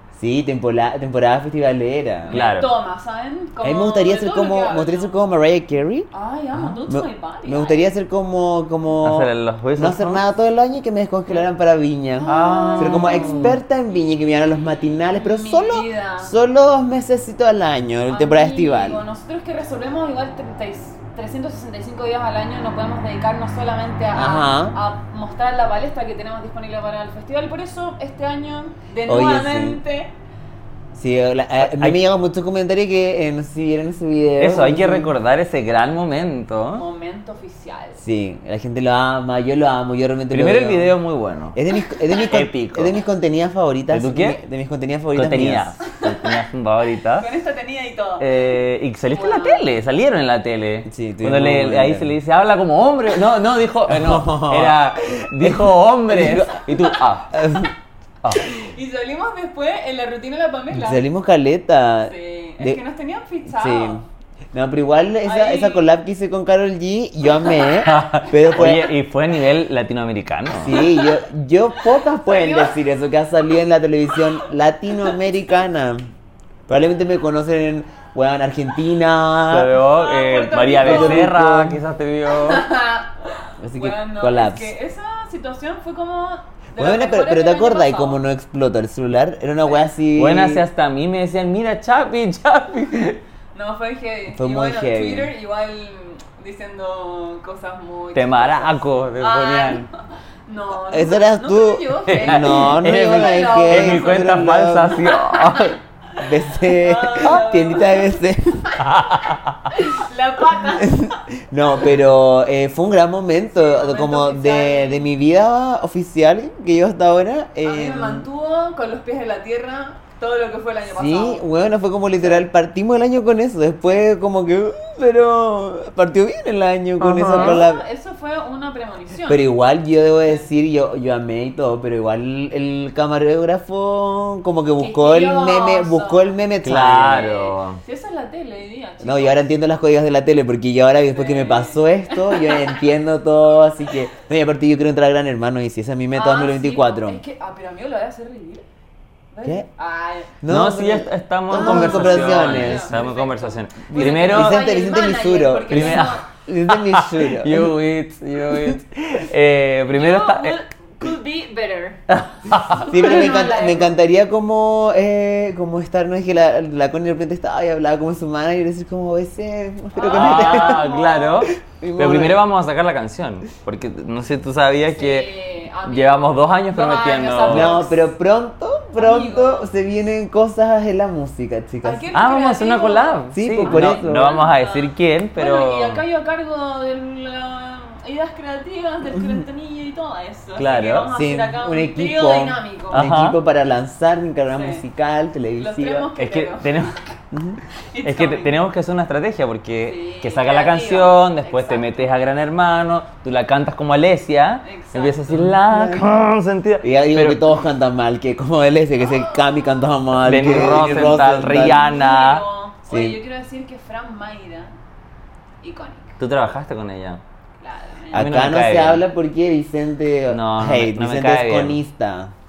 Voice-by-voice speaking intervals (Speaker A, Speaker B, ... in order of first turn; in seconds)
Speaker A: 0.2-2.4, 3.6-6.1, 6.9-19.0, 24.1-24.8, 29.1-29.8, 30.9-35.1, 38.0-40.9, 41.5-45.7, 50.9-52.1, 53.9-56.8, 57.3-57.7, 60.7-62.8, 63.5-68.9, 70.6-76.1, 76.7-79.7, 80.8-81.8, 83.6-84.7, 86.8-90.6, 94.3-95.3, 100.9-105.0, 106.2-108.8, 110.6-118.3, 120.9-127.8, 129.3-137.3, 139.0-147.2, 150.4-152.9, 153.9-157.7, 162.8-170.9, 171.6-172.4, 177.5-182.1, 183.3-184.3, 191.1-196.1, 197.3-197.6, 205.3-206.1, 206.8-211.8, 212.9-213.2, 218.1-222.3
Speaker B: 2.3-5.2, 6.1-7.9, 12.2-13.5, 15.2-16.4, 18.1-30.1, 36.8-38.0, 41.9-42.2, 45.9-46.3, 47.2-48.3, 49.1-49.6, 58.4-61.0, 62.0-64.1, 65.2-65.9, 70.7-71.2, 72.2-72.8, 79.9-81.3, 82.3-88.2, 93.5-108.2, 109.7-111.2, 113.5-115.1, 117.6-121.5, 127.3-129.4, 134.8-136.3, 137.0-139.5, 141.1-142.8, 146.1-148.7, 149.3-150.3, 151.5-156.3, 159.9-162.0, 162.7-163.9, 169.9-171.4, 174.9-178.1, 178.9-179.7, 181.8-193.1, 194.5-194.8, 195.6-197.0, 197.7-198.6, 199.8-202.0, 204.6-205.4, 210.8-214.8, 215.6-216.2, 217.6-218.2
Speaker C: 2.3-2.7, 9.0-10.2, 12.3-13.6, 31.6-32.0, 34.4-36.9, 40.3-41.6, 42.3-43.0, 43.9-44.4, 45.1-47.3, 48.2-57.3, 67.8-70.8, 79.5-82.7, 90.2-93.2, 98.2-99.9, 102.1-105.8, 108.8-109.7, 127.0-127.6, 136.6-137.8, 150.5-154.7, 155.7-160.6, 162.1-162.9, 170.1-175.3, 175.9-177.8, 182.1-186.0, 190.6-191.1, 192.9-193.4, 196.2-196.9, 198.0-207.5, 210.2-212.4, 216.2-217.2, 218.1-219.0, 220.3-221.8